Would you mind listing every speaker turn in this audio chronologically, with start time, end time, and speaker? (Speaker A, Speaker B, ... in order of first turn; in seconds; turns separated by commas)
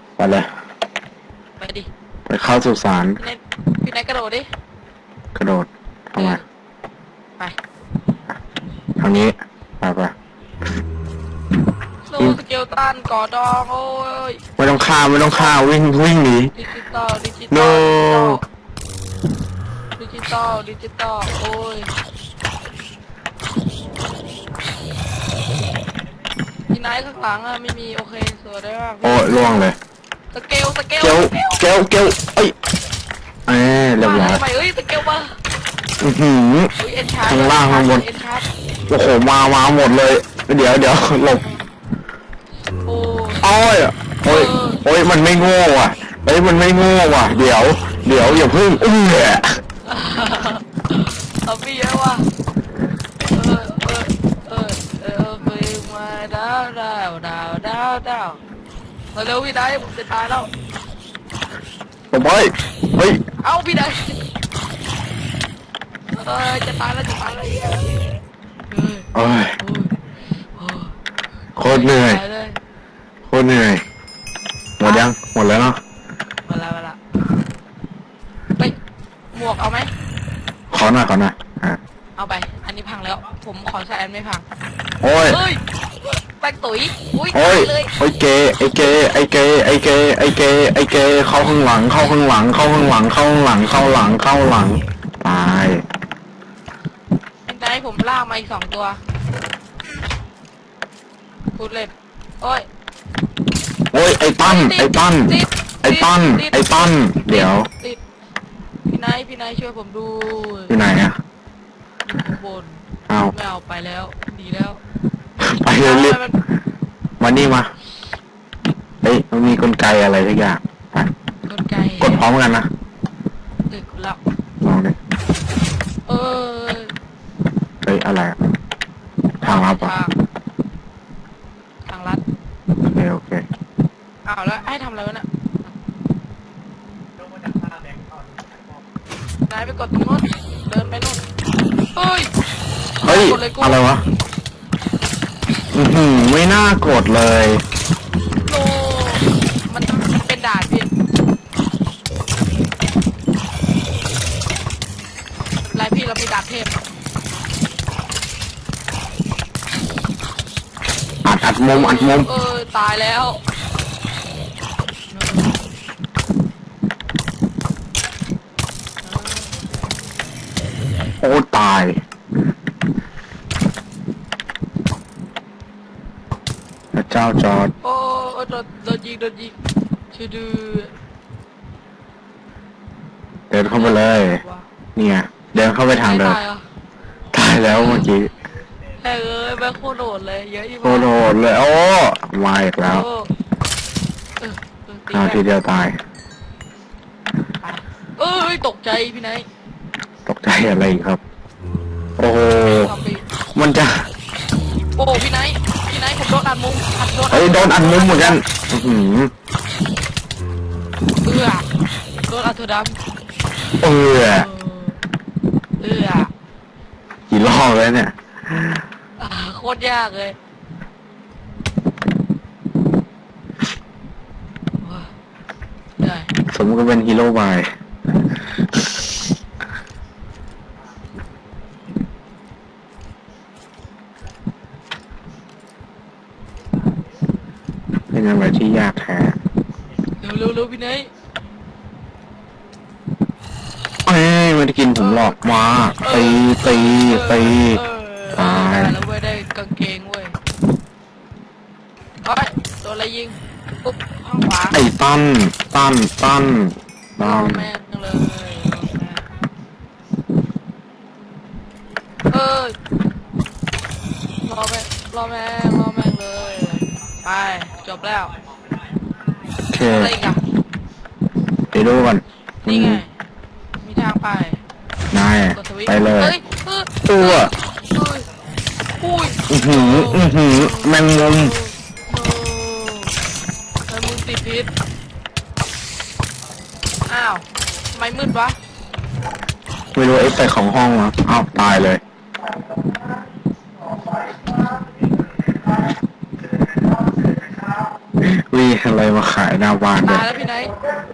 Speaker A: 0.2-0.5, Speaker B: 1.6-1.9, Speaker A: 2.3-3.2, Speaker B: 3.2-4.5, Speaker A: 5.3-6.4, Speaker B: 6.2-6.4, Speaker A: 9.0-10.1, Speaker B: 12.1-14.4, Speaker A: 14.6-16.5, Speaker B: 15.1-15.6, Speaker B: 16.6-18.4, Speaker A: 17.5-18.4, Speaker B: 20.0-21.9, Speaker B: 26.7-29.6, Speaker A: 29.0-29.8, Speaker B: 30.3-31.6, Speaker A: 31.0-32.5, Speaker A: 33.5-34.4, Speaker B: 34.0-35.4, Speaker A: 36.0-36.7, Speaker B: 36.8-38.5, Speaker A: 37.2-38.0, Speaker A: 38.9-41.5, Speaker B: 42.8-43.5, Speaker A: 43.4-49.6, Speaker B: 44.2-44.8, Speaker B: 49.9-52.3, Speaker B: 53.3-58.4, Speaker B: 59.1-60.5, Speaker A: 62.1-63.2, Speaker B: 63.4-64.2, Speaker B: 66.1-68.1, Speaker B: 68.7-69.9, Speaker A: 69.1-69.6, Speaker B: 70.5-70.9, Speaker A: 71.6-72.2, Speaker B: 71.6-72.6, Speaker A: 73.3-73.8, Speaker A: 74.8-75.8, Speaker B: 74.8-75.1, Speaker B: 76.5-77.0, Speaker B: 79.3-79.9, Speaker A: 80.7-81.8, Speaker B: 82.2-84.4, Speaker A: 85.0-85.4, Speaker B: 85.3-85.6, Speaker B: 86.2-87.9, Speaker A: 87.3-95.8, Speaker B: 97.5-99.0, Speaker B: 101.6-102.7, Speaker A: 103.9-107.7, Speaker B: 104.4-108.0, Speaker B: 108.9-110.8, Speaker A: 110.7-111.2, Speaker B: 112.1-114.8, Speaker A: 113.1-113.3, Speaker A: 115.4-116.2, Speaker B: 115.8-116.4, Speaker A: 117.2-117.7, Speaker A: 119.0-121.1, Speaker B: 121.5-122.2, Speaker A: 122.0-122.7, Speaker B: 123.7-124.2, Speaker A: 124.6-125.0, Speaker B: 126.1-126.9, Speaker A: 127.8-128.4, Speaker A: 129.4-129.9, Speaker B: 129.4-130.1, Speaker B: 131.9-132.2, Speaker A: 132.8-133.4, Speaker B: 134.2-135.2, Speaker B: 139.5-141.2, Speaker B: 141.9-142.3, Speaker B: 143.0-143.8, Speaker A: 143.0-144.0, Speaker A: 145.7-147.6, Speaker B: 148.4-150.9, Speaker B: 155.6-156.8, Speaker A: 161.2-162.3, Speaker B: 161.7-163.4, Speaker B: 165.1-165.6, Speaker B: 169.0-169.6, Speaker A: 171.2-172.0, Speaker A: 176.9-177.7, Speaker B: 177.8-179.6, Speaker B: 180.1-180.9, Speaker A: 183.5-184.4, Speaker B: 183.6-184.7, Speaker A: 184.9-186.4, Speaker B: 185.9-186.6, Speaker A: 187.3-188.3, Speaker B: 187.7-188.1, Speaker B: 189.0-191.1, Speaker A: 190.8-193.1, Speaker B: 192.8-193.3, Speaker B: 194.4-195.4, Speaker A: 195.1-196.0, Speaker B: 197.6-199.4, Speaker A: 200.2-201.2, Speaker A: 202.2-202.9, Speaker B: 202.6-203.2, Speaker A: 203.6-204.1, Speaker B: 204.9-208.4, Speaker A: 207.3-209.3, Speaker B: 211.2-211.7, Speaker B: 212.3-212.9, Speaker A: 213.8-214.5, Speaker B: 214.3-215.0, Speaker B: 215.8-216.3, Speaker A: 217.3-218.8, Speaker B: 219.2-220.3, Speaker B: 224.8-225.1, Speaker B: 226.0-226.3, Speaker A: 226.5-227.7, Speaker A: 238.1-239.3, Speaker B: 240.2-241.1, Speaker A: 244.1-247.8, Speaker B: 244.9-245.3, Speaker B: 246.0-250.3, Speaker A: 248.3-248.9, Speaker B: 252.2-254.8, Speaker A: 254.7-257.7, Speaker B: 257.2-259.3, Speaker B: 262.3-262.8, Speaker B: 264.4-268.3, Speaker A: 269.7-270.1, Speaker B: 269.8-270.4, Speaker A: 271.7-273.0, Speaker B: 272.6-273.1, Speaker B: 273.8-274.6, Speaker A: 275.1-276.3, Speaker B: 275.5-278.3, Speaker A: 277.1-277.5, Speaker B: 279.0-283.1, Speaker A: 279.5-281.6, Speaker B: 283.9-284.7, Speaker B: 287.1-288.6, Speaker A: 289.9-292.0, Speaker A: 298.2-300.2, Speaker B: 300.0-300.7